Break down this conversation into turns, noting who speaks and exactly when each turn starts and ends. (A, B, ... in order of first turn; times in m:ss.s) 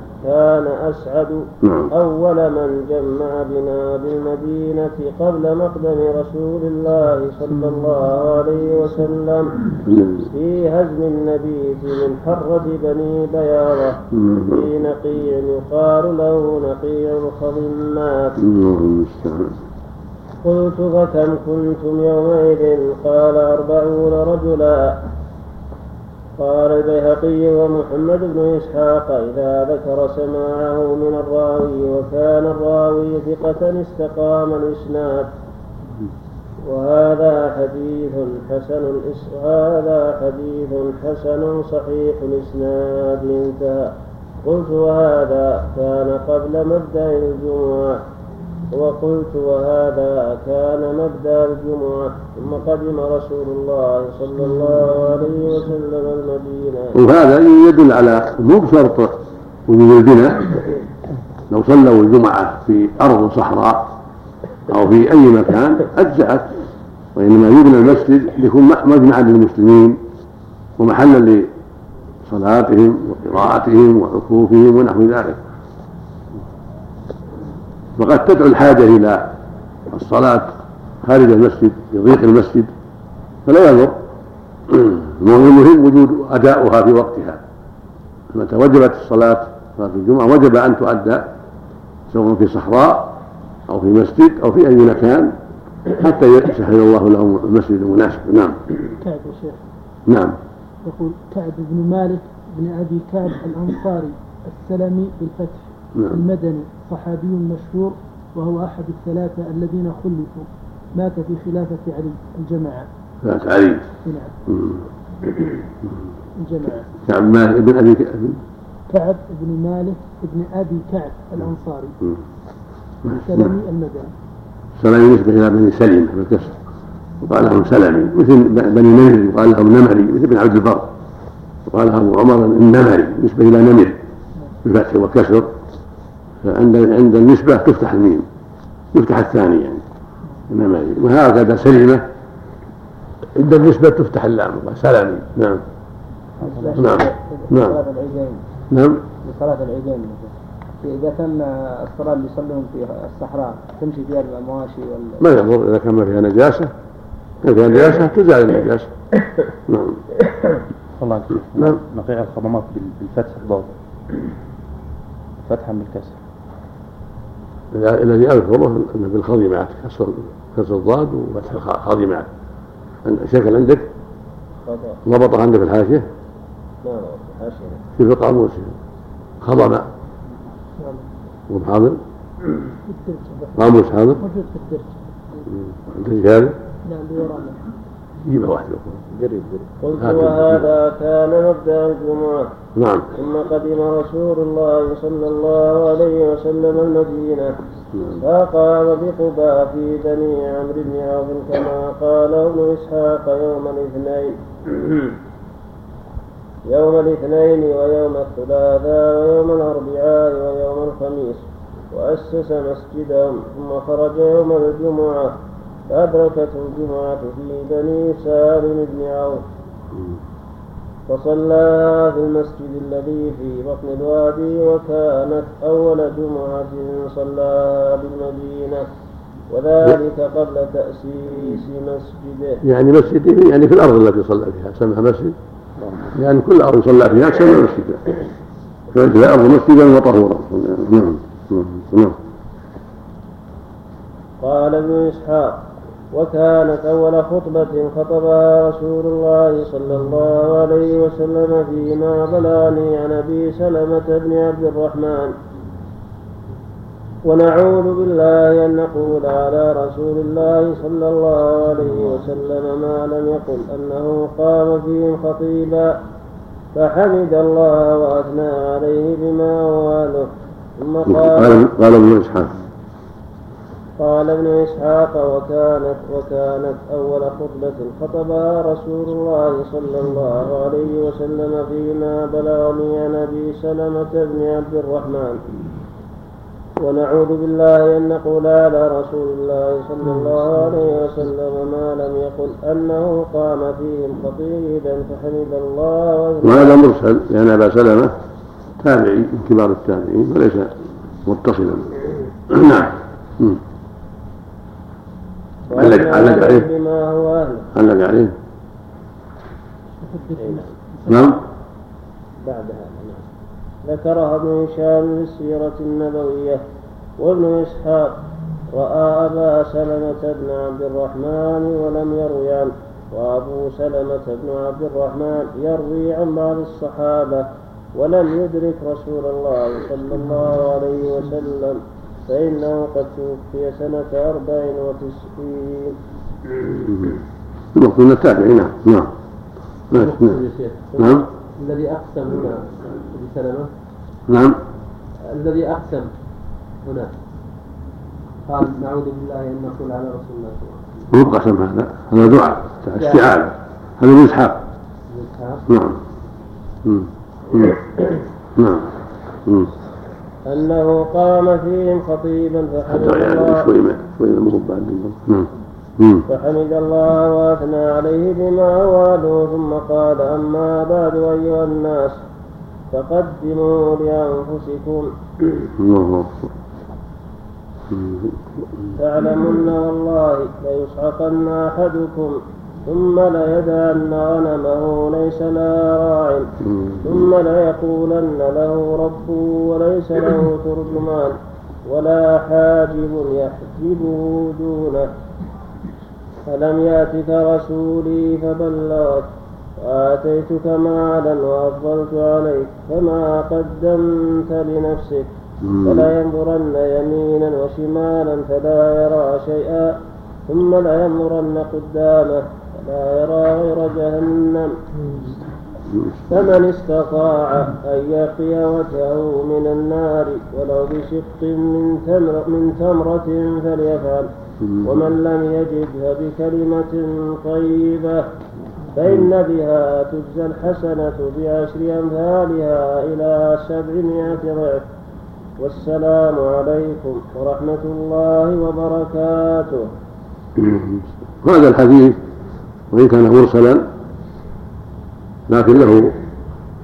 0:00.2-0:09.6 A
0:01.6-0:01.9 B
0:09.8-0:10.3 B
0:10.3-0:18.4 A
0:14.1-0:14.7 B
0:18.4-0:19.6 B
0:20.4-0:25.0 A
0:26.4-0:35.3 A
0:36.6-0:48.0 A
0:48.7-0:57.0 A
0:57.0-0:59.1 B
0:59.7-1:00.6 B
1:01.5-1:03.9 B
1:04.7-1:06.5 B
1:07.2-1:10.0 B
1:10.8-1:11.5 B
1:12.3-1:15.4 B
1:18.0-1:19.3 B
1:19.9-1:22.7 B
1:23.4-1:24.0 B
1:24.7-1:27.4 B
1:28.3-1:31.3 B
1:32.1-1:33.2 B
1:33.7-1:35.3 B
1:35.9-1:38.6 B
1:39.0-1:39.6 C
1:40.1-1:40.4 B
1:40.8-1:52.9 C
1:46.0-1:46.2 B
1:53.2-1:53.9 B
1:54.0-1:54.3 C
1:54.5-1:54.9 B
1:56.4-1:56.9 C
1:57.0-1:58.4 B
1:58.9-2:02.0 C
2:03.0-2:03.5 B
2:03.1-2:04.1 C
2:04.8-2:06.6 B
2:07.2-2:10.9 B
2:11.7-2:14.0 B
2:14.6-2:15.5 B
2:16.4-2:18.3 B
2:18.9-2:19.8 B
2:20.5-2:22.0 B
2:23.4-2:25.6 B
2:26.4-2:27.1 C
2:26.6-2:27.0 D
2:26.8-2:27.8 B
2:27.5-2:28.3 D
2:28.7-2:29.0 B
2:29.2-2:30.3 D
2:31.0-2:35.2 D
2:35.2-2:36.7 B
2:37.4-2:38.9 B
2:39.7-2:40.0 B
2:41.0-2:43.7 E
2:41.5-2:41.8 B
2:45.4-2:46.2 E
2:47.7-2:52.3 B
2:53.0-2:53.9 B
2:54.6-2:55.0 A
2:55.0-2:56.1 B
2:56.8-2:57.8 A
2:58.0-2:58.8 B
2:59.4-2:59.9 B
3:00.8-3:01.1 C
3:01.5-3:02.0 B
3:02.9-3:05.0 C
3:03.6-3:04.2 B
3:05.5-3:06.5 B
3:06.9-3:07.6 C
3:08.2-3:09.1 B
3:09.4-3:09.6 D
3:09.8-3:12.4 A
3:10.0-3:10.6 B
3:12.7-3:13.1 B
3:13.1-3:17.6 A
3:17.9-3:18.2 B
3:18.2-3:25.1 A
3:26.7-3:35.4 A
3:35.9-3:39.4 A
3:41.1-3:48.9 A
3:49.5-3:52.6 A
3:52.6-3:55.4 B
3:56.2-3:58.1 B
3:58.9-4:02.2 B
4:04.4-4:15.4 A
4:17.3-4:26.0 A
4:26.7-4:31.6 A
4:31.1-4:32.6 B
4:34.0-4:45.4 A
4:46.8-4:56.8 A
4:56.4-4:58.1 B
4:58.8-5:00.7 B
5:01.2-5:02.0 B
5:02.5-5:03.6 B
5:05.7-5:07.7 A
5:05.7-5:06.7 B
5:07.7-5:08.3 B
5:10.0-5:11.4 C
5:10.4-5:10.7 A
5:11.1-5:11.4 B
5:12.4-5:13.2 A
5:13.8-5:16.6 A
5:17.2-5:36.0 A
5:36.8-5:37.1 B
5:37.7-5:39.1 B
5:39.9-5:40.4 B
5:39.9-5:43.7 F
5:41.0-5:41.3 B
5:44.3-5:44.6 B
5:45.2-5:46.1 F
5:46.8-5:47.1 F
5:48.5-5:50.8 F
5:51.1-5:54.6 B
5:53.0-5:53.3 F
5:55.1-5:55.6 F
5:55.7-5:56.0 B
5:56.8-5:57.8 B
5:58.6-5:58.9 B
5:59.4-5:59.7 B
6:00.4-6:03.7 A
6:02.9-6:06.3 B
6:06.3-6:12.2 A
6:12.9-6:15.1 A
6:15.7-6:16.5 B
6:17.9-6:18.9 B
6:19.0-6:26.5 A
6:26.6-6:27.3 B
6:27.0-6:31.4 A
6:31.9-6:35.1 A
6:36.4-6:39.3 A
6:39.8-6:45.3 A
6:45.6-6:46.1 B
6:45.8-6:50.0 A
6:50.5-6:54.8 A
6:55.9-6:56.3 B
6:56.3-7:04.3 A
7:04.6-7:05.0 B
7:04.8-7:08.3 A
7:08.9-7:14.8 A
7:15.6-7:19.9 A
7:20.6-7:22.2 B
7:22.9-7:23.9 B
7:25.5-7:26.1 B